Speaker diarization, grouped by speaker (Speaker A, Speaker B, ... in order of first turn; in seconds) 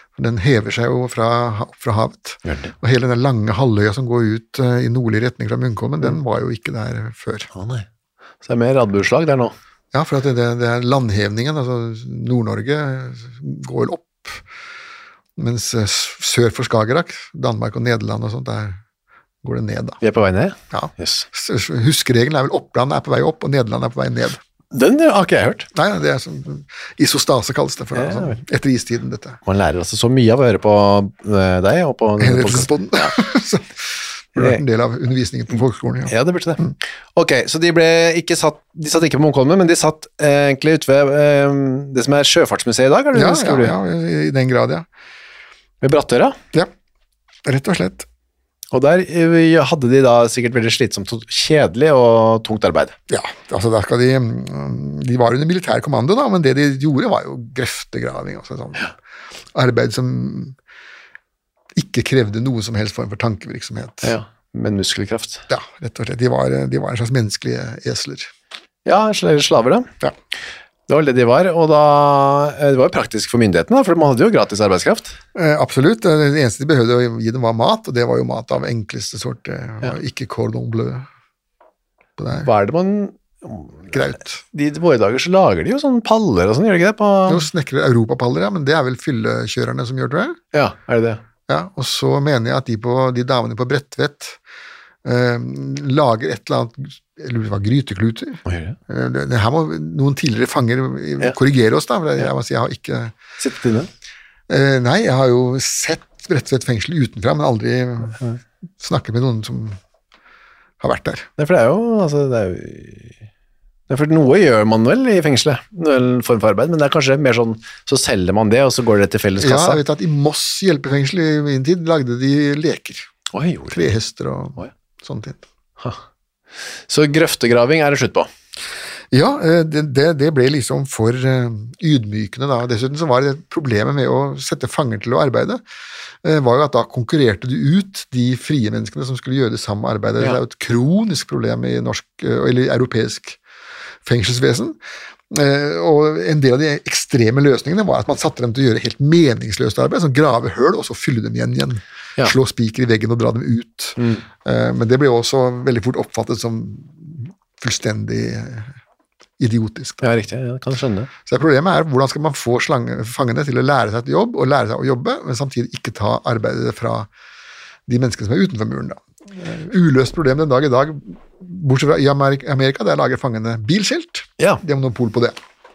Speaker A: 0.2-7.5, 9.9-14.4, 15.4-18.8, 19.4-20.0, 20.7-24.4, 25.7-29.4, 32.2-36.7, 43.1-44.9, 47.5-48.1, 53.1-58.9, 59.5-60.5, 61.7-64.2, 65.5-68.3, 75.3-81.1, 82.2-82.5, 83.9-84.4, 87.2-90.4, 91.5-94.4, 95.0-103.1, 104.5-108.2, 108.8-109.8, 110.8-111.3, 119.4-123.1, 123.7-125.4, 129.1-135.6, 136.2-143.4, 144.0-144.8, 145.3-158.7, 159.4-160.1, 161.2-167.1, 167.9-175.3
Speaker B: 2.5-2.7, 7.5-7.8, 8.4-9.5, 20.0-21.2, 24.7-25.7, 27.9-28.4, 29.4-33.1, 34.4-34.6, 36.1-43.7, 45.8-46.4, 48.7-52.9, 64.0-65.4, 68.8-69.9, 70.9-75.2, 82.4-84.0, 84.5-87.5, 90.5-91.2, 98.5-98.8, 103.4-103.9, 111.4-113.1, 113.9-119.8, 123.3-123.8, 126.9-128.3, 154.0-154.2, 160.0-161.1